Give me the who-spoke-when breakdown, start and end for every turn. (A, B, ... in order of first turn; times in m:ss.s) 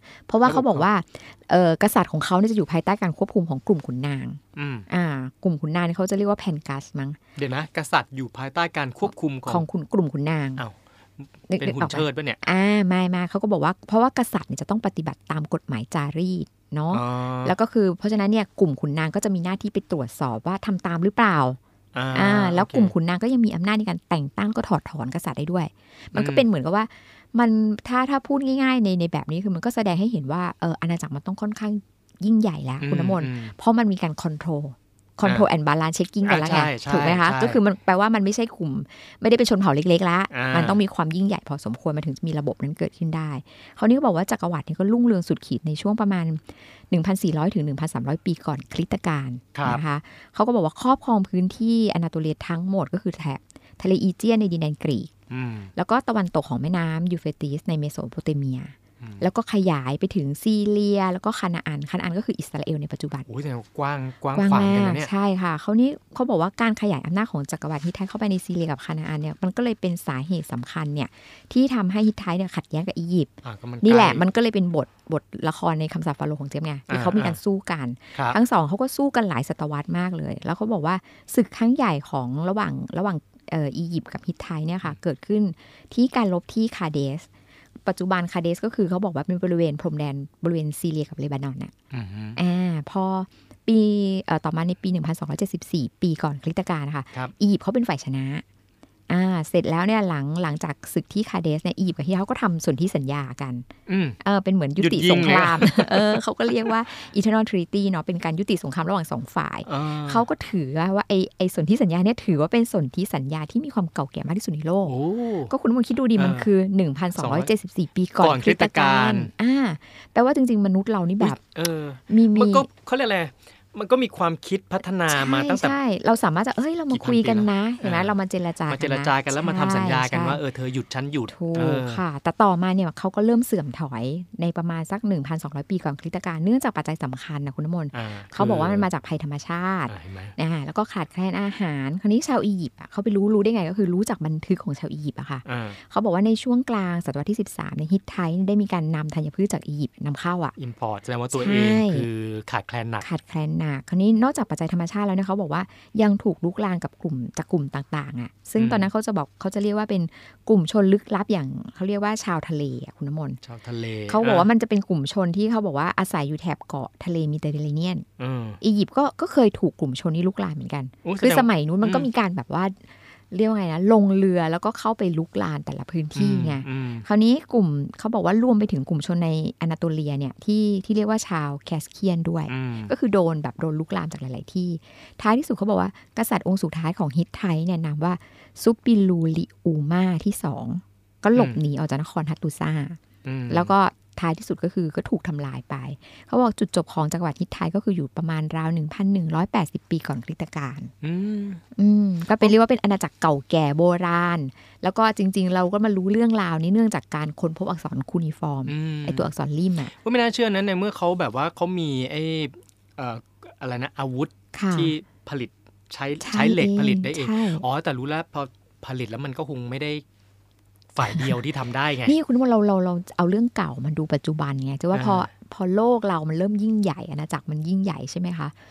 0:00.2-0:07.2 A
0:00.4-0:00.9 B
0:04.6-0:04.9 B
0:07.4-0:09.7 B
0:09.5-0:10.6 A
0:10.6-0:12.4 B
0:11.5-0:21.6 A
0:16.9-0:17.6 B
0:21.9-0:22.9 B
0:22.1-0:55.1 A
0:26.1-0:26.5 B
0:32.8-0:33.5 B
0:35.2-0:35.5 B
0:36.2-0:37.6 B
0:40.3-0:40.8 B
0:49.5-0:49.8 B
0:55.3-0:55.7 B
0:55.8-1:03.3 A
0:59.0-0:59.3 B
1:03.3-1:05.1 B
1:04.3-1:27.3 A
1:13.4-1:14.2 B
1:16.9-1:17.4 B
1:27.8-1:31.7 A
1:31.9-1:32.4 B
1:32.4-1:38.4 A
1:39.1-1:43.7 A
1:43.9-1:44.2 B
1:44.2-1:55.0 A
1:44.8-1:46.5 B
1:49.6-1:50.2 B
1:54.8-1:55.5 B
1:55.5-2:01.4 A
1:56.2-1:56.5 B
1:57.1-1:57.5 B
1:58.2-1:59.3 B
2:01.2-2:05.8 B
2:02.1-2:02.7 A
2:05.1-2:10.4 A
2:06.9-2:08.1 B
2:08.7-2:12.0 B
2:11.3-2:30.5 A
2:17.9-2:18.9 B
2:19.9-2:20.3 B
2:25.4-2:25.8 B
2:30.6-2:33.1 B
2:31.3-2:32.1 A
2:33.0-2:43.4 A
2:38.6-2:38.9 B
2:43.4-2:44.5 B
2:44.1-2:48.1 A
2:48.2-2:48.6 B
2:48.6-3:20.9 A
2:51.0-2:52.1 B
2:56.2-2:57.1 B
3:02.5-3:02.9 B
3:13.2-3:13.7 B
3:21.0-3:21.6 B
3:21.8-3:29.9 A
3:28.7-3:29.3 B
3:29.9-3:40.0 B
3:34.5-3:35.0 A
3:36.2-3:37.6 A
3:40.9-3:42.2 B
3:42.0-3:48.5 A
3:44.9-3:45.3 B